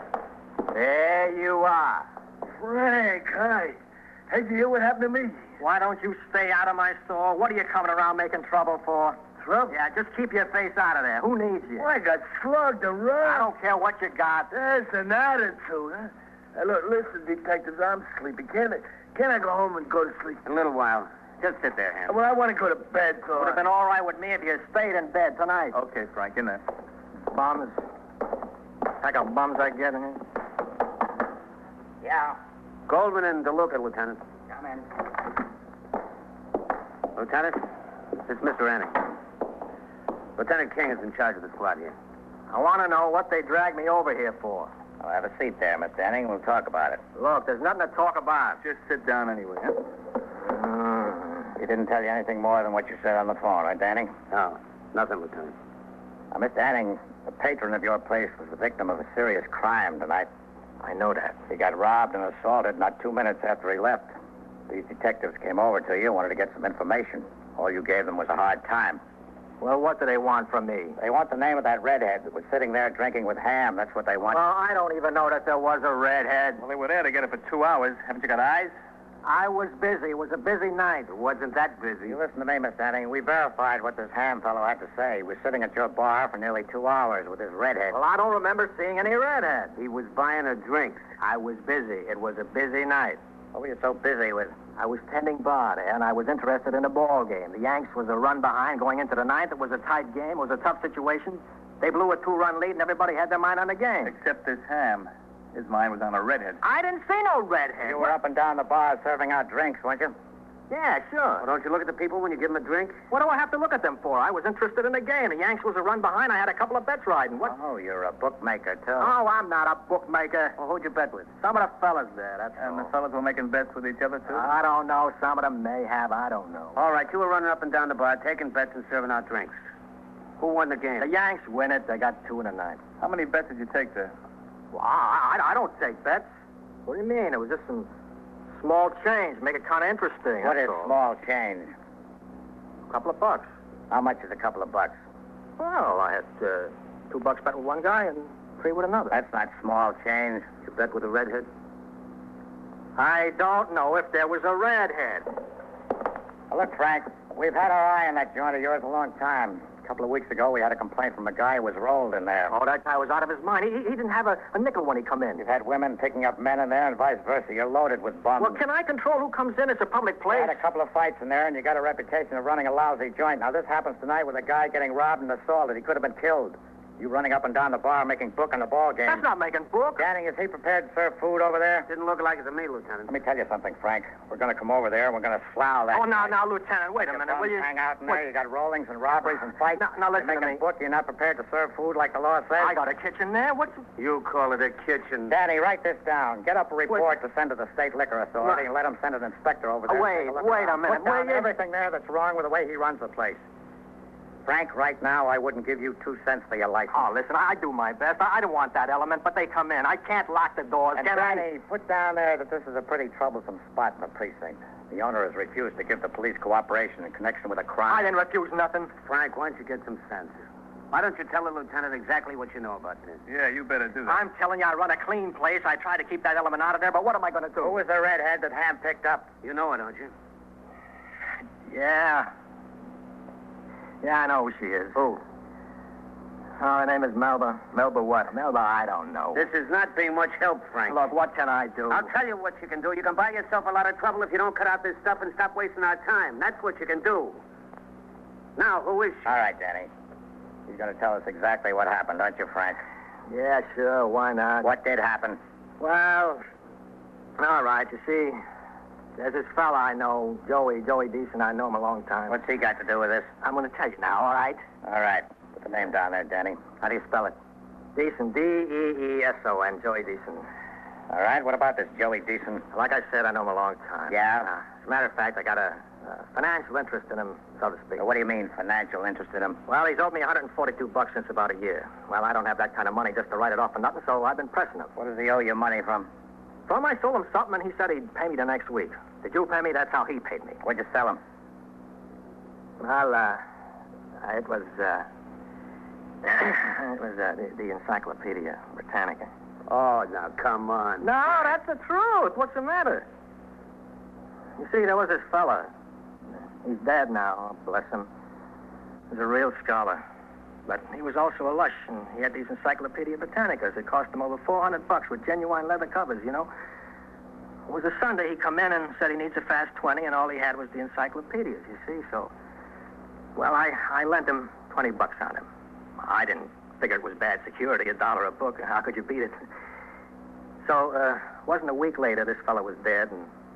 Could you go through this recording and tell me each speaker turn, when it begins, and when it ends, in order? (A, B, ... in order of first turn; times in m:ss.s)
0:00.7-0:02.1 A
0:02.5-0:03.8 B
0:04.3-0:05.4 B
0:05.6-0:11.8 A
0:09.4-0:09.7 B
0:11.8-0:13.5 B
0:13.2-0:14.5 A
0:14.5-0:20.4 B
0:20.4-0:22.2 C
0:22.1-0:23.6 B
0:23.4-0:25.8 A
0:25.7-0:26.6 D
0:27.3-0:27.8 A
0:29.0-0:30.2 A
0:32.0-0:32.4 E
0:32.9-0:34.2 C
0:34.5-0:34.8 E
0:37.2-0:37.6 C
0:38.2-0:39.0 C
0:40.4-0:42.0 C
0:42.5-0:44.7 A
0:45.0-0:47.0 E
0:47.2-0:48.6 A
0:48.6-0:49.8 D
0:50.6-0:51.2 A
0:51.6-0:54.1 E
0:54.3-0:55.5 C
0:56.3-1:00.3 E
1:00.8-1:01.4 A
1:01.5-1:04.1 E
1:04.7-1:09.0 E
1:09.6-1:11.0 A
1:11.0-1:14.4 E
1:14.3-1:16.6 A
1:16.6-1:18.7 D
1:19.2-1:21.1 A
1:21.1-1:22.2 C
1:22.1-1:28.0 E
1:27.9-1:29.7 A
1:29.8-1:31.1 C
1:31.2-1:33.2 A
1:33.5-1:34.5 E
1:34.8-1:44.1 A
1:44.0-1:46.6 D
1:46.6-1:48.2 A
1:47.8-1:50.2 E
1:50.7-1:51.5 A
1:51.4-1:53.0 C
1:53.1-1:57.5 A
1:57.4-1:59.1 E
1:59.0-2:00.6 A
2:00.6-2:01.3 C
2:01.4-2:02.9 A
2:02.6-2:04.5 D
2:04.3-2:06.8 A
2:06.7-2:09.6 C
2:10.4-2:11.1 C
2:11.0-2:12.8 A
2:13.0-2:14.1 D
2:14.7-2:16.3 A
2:16.8-2:17.9 A
2:18.6-2:20.9 A
2:20.4-2:21.7 E
2:22.9-2:23.5 A
2:23.9-2:25.0 E
2:25.6-2:29.2 A
2:29.1-2:30.5 E
2:30.6-2:31.5 C
2:33.0-2:35.3 A
2:36.5-2:42.5 E
2:42.5-2:45.4 A
2:45.4-2:48.6 E
2:48.4-2:50.6 A
2:50.3-2:59.2 E
2:59.0-3:00.0 A
3:00.0-3:01.9 E
3:01.9-3:03.1 C
3:03.1-3:06.4 E
3:05.9-3:08.2 A
3:07.0-3:12.8 E
3:09.7-3:10.6 A
3:12.6-3:13.8 A
3:14.0-3:15.3 C
3:15.3-3:23.4 E
3:19.9-3:21.5 A
3:24.4-3:27.1 E
3:26.9-3:31.4 A
3:31.0-3:38.1 E
3:37.9-3:38.9 A
3:39.0-3:43.2 C
3:43.3-3:44.2 D
3:44.0-3:47.8 A
3:47.6-3:49.3 E
3:49.4-3:50.1 C
3:51.7-3:52.3 A
3:54.0-3:55.2 A
3:56.6-3:59.4 A
3:59.3-4:01.0 C
4:00.9-4:02.1 A
4:01.9-4:07.4 C
4:08.6-4:09.4 C
4:09.2-4:09.9 E
4:10.7-4:12.8 E
4:13.3-4:14.7 A
4:14.6-4:15.4 E
4:15.8-4:16.4 A
4:17.4-4:18.4 A
4:19.2-4:22.4 A
4:22.3-4:23.3 E
4:23.4-4:24.6 A
4:24.8-4:27.4 E
4:27.9-4:30.5 A
4:31.1-4:32.6 E
4:32.7-4:38.0 A
4:34.1-4:34.5 E
4:38.0-4:39.6 E
4:39.7-4:44.9 A
4:45.0-4:46.1 E
4:46.7-4:50.6 A
4:50.6-4:51.2 E
4:52.8-4:53.4 A
4:54.2-4:55.1 A
4:56.2-4:59.3 A
4:59.7-5:01.3 C
5:01.0-5:03.0 A
5:04.6-5:05.7 A
5:06.6-5:08.1 A
5:09.1-5:10.0 A
5:10.7-5:16.5 A
5:17.7-5:22.3 A
5:23.4-5:25.4 A
5:26.0-5:29.4 A
5:30.6-5:33.3 A